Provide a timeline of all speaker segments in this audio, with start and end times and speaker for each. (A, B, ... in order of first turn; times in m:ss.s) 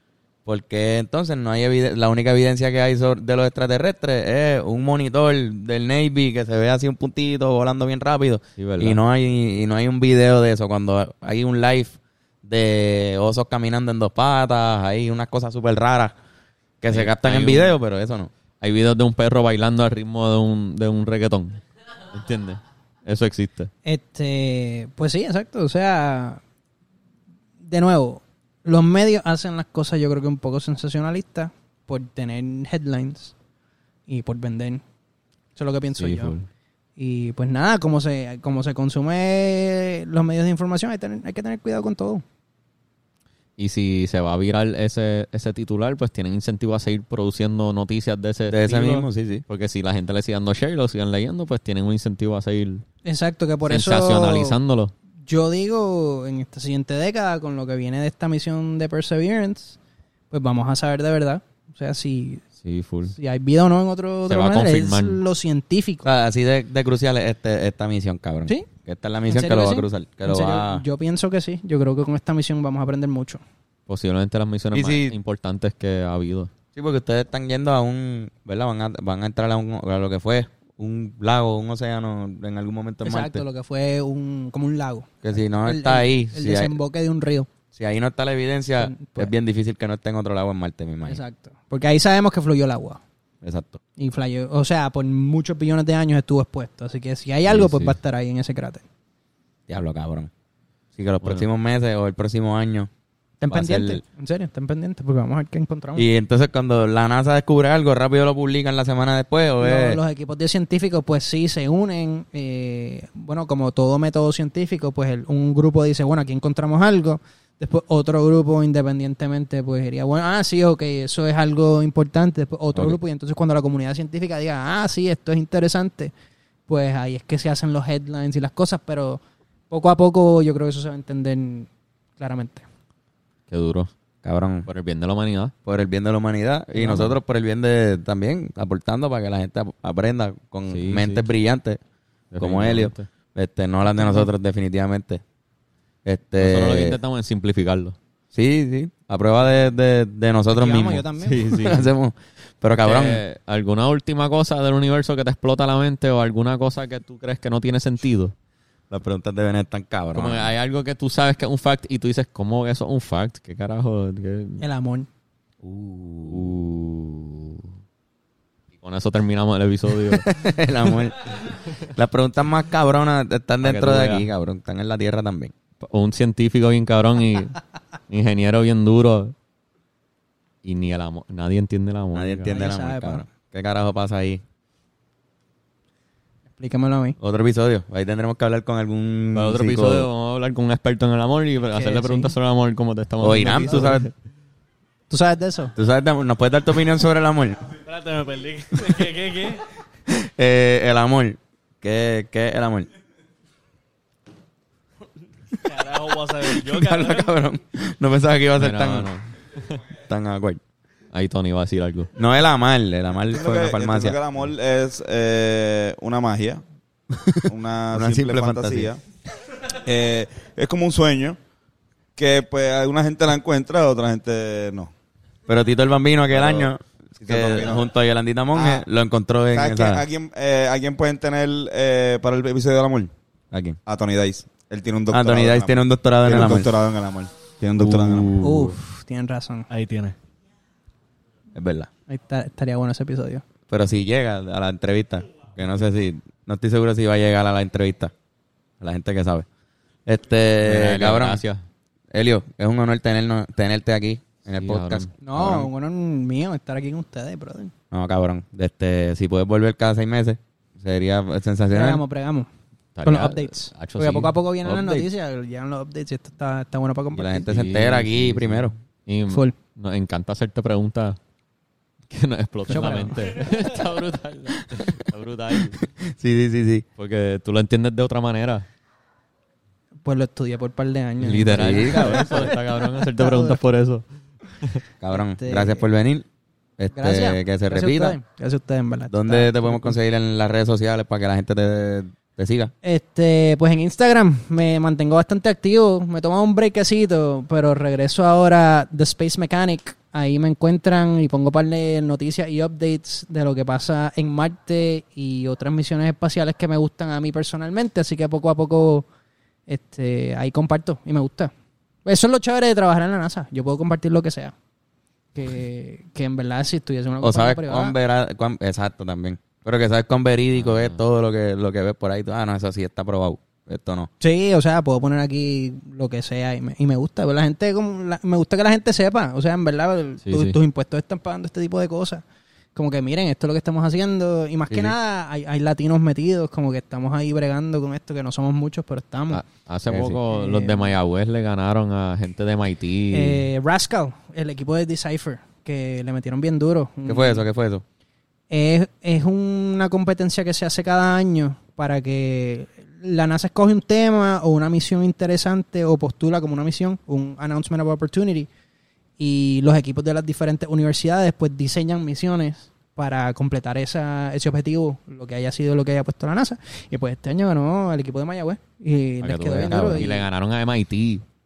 0:00.5-0:16.1 A
0:08.6-0:09.0 B
0:16.8-0:18.3 A
0:16.9-0:17.7 B
0:18.6-0:21.6 B
0:22.1-0:23.7 B
0:23.8-0:26.4 C
0:27.6-0:33.3 C
0:34.1-0:34.8 C
0:35.6-0:36.4 C
0:36.0-0:36.5 B
0:37.0-0:42.2 C
0:43.6-0:52.8 B
0:48.5-0:49.4 A
0:53.0-0:54.6 C
0:53.7-0:54.9 B
0:55.3-0:59.8 C
1:00.3-1:02.4 C
1:02.6-1:03.2 B
1:03.1-1:06.1 C
1:04.3-1:05.2 B
1:06.0-1:10.8 A
1:09.3-1:13.4 C
1:13.9-1:16.5 B
1:14.7-1:15.2 A
1:16.8-1:23.4 A
1:23.0-1:27.5 C
1:25.2-1:26.8 A
1:27.7-1:31.2 A
1:28.8-1:29.3 C
1:31.1-1:33.0 C
1:33.4-1:33.8 A
1:34.0-1:38.8 C
1:37.5-1:38.0 B
1:39.7-1:40.3 A
1:41.0-1:42.9 A
1:43.4-1:46.1 C
1:43.5-1:44.0 A
1:46.0-1:50.0 A
1:49.6-2:06.1 C
2:06.7-2:12.6 C
2:13.5-2:13.9 B
2:14.2-2:14.7 A
2:14.7-2:15.5 B
2:15.7-2:21.8 A
2:16.8-2:17.1 C
2:16.8-2:17.2 B
2:20.7-2:21.2 B
2:22.3-2:23.1 B
2:22.4-2:25.2 A
2:23.9-2:24.3 C
2:26.0-2:27.0 A
2:26.4-2:28.0 B
2:28.3-2:33.2 A
2:30.5-2:31.6 C
2:31.2-2:31.9 B
2:32.8-2:38.4 B
2:38.9-2:40.5 A
2:40.1-2:44.6 B
2:44.6-2:45.1 C
2:45.6-2:46.5 A
2:46.3-2:47.7 B
2:48.8-2:50.3 B
2:50.1-2:55.5 A
2:53.6-2:54.3 B
2:55.8-2:59.3 B
3:00.6-3:02.5 B
3:02.1-3:04.4 A
3:02.5-3:03.2 C
3:06.6-3:07.2 C
3:07.2-3:10.1 A
3:09.4-3:14.1 B
3:11.7-3:12.3 C
3:13.2-3:14.1 A
3:15.1-3:15.7 C
3:15.8-3:17.7 A
3:17.8-3:19.6 D
3:20.1-3:22.9 A
3:25.6-3:27.3 D
3:26.6-3:29.1 A
3:28.6-3:29.8 B
3:30.1-3:30.6 A
3:31.1-3:32.1 B
3:32.2-3:34.2 A
3:33.3-3:36.6 E
3:37.1-3:38.9 A
3:37.5-3:39.0 E
3:39.7-3:41.4 E
3:42.2-3:44.9 E
3:45.5-3:50.0 A
3:46.3-3:47.8 E
3:48.5-3:48.8 E
3:49.5-3:53.1 E
3:53.5-3:53.8 A
3:53.9-3:58.7 E
3:55.1-3:56.8 A
3:57.9-3:58.3 B
3:58.4-3:59.7 C
3:59.7-4:00.2 D
4:01.6-4:01.9 A
4:02.1-4:03.4 C
4:03.7-4:08.1 A
4:08.8-4:09.5 A
4:10.1-4:11.4 A
4:10.6-4:11.6 B
4:12.1-4:15.7 A
4:14.6-4:15.1 B
4:15.2-4:17.7 C
4:17.9-4:22.0 A
4:21.7-4:22.5 C
4:23.0-4:24.3 B
4:23.0-4:27.5 C
4:24.6-4:25.1 A
4:27.2-4:28.7 A
4:27.5-4:31.2 B
4:29.3-4:29.6 C
4:32.1-4:35.8 B
4:32.7-4:33.2 C
4:35.8-4:36.9 A
4:37.0-4:38.7 B
4:40.0-4:43.6 C
4:41.2-4:44.0 B
4:41.5-4:42.5 A
4:45.0-4:46.3 A
4:45.1-4:45.8 C
4:46.8-4:48.2 A
4:46.9-4:50.0 C
4:49.1-4:52.7 A
4:52.8-5:09.1 C
5:09.7-5:11.5 C
5:12.1-5:14.5 C
5:15.4-5:18.0 C
5:17.2-5:24.1 A
5:20.6-5:21.0 B
5:24.2-5:32.2 C
5:30.2-5:30.6 B
5:32.8-5:39.4 C
5:39.3-5:43.4 B
5:39.9-5:40.2 A
5:40.3-5:41.0 C
5:43.1-5:47.4 C
5:47.1-5:47.8 A
5:48.5-5:58.5 C
5:59.2-6:10.2 C
6:09.2-6:11.2 B
6:09.7-6:10.2 A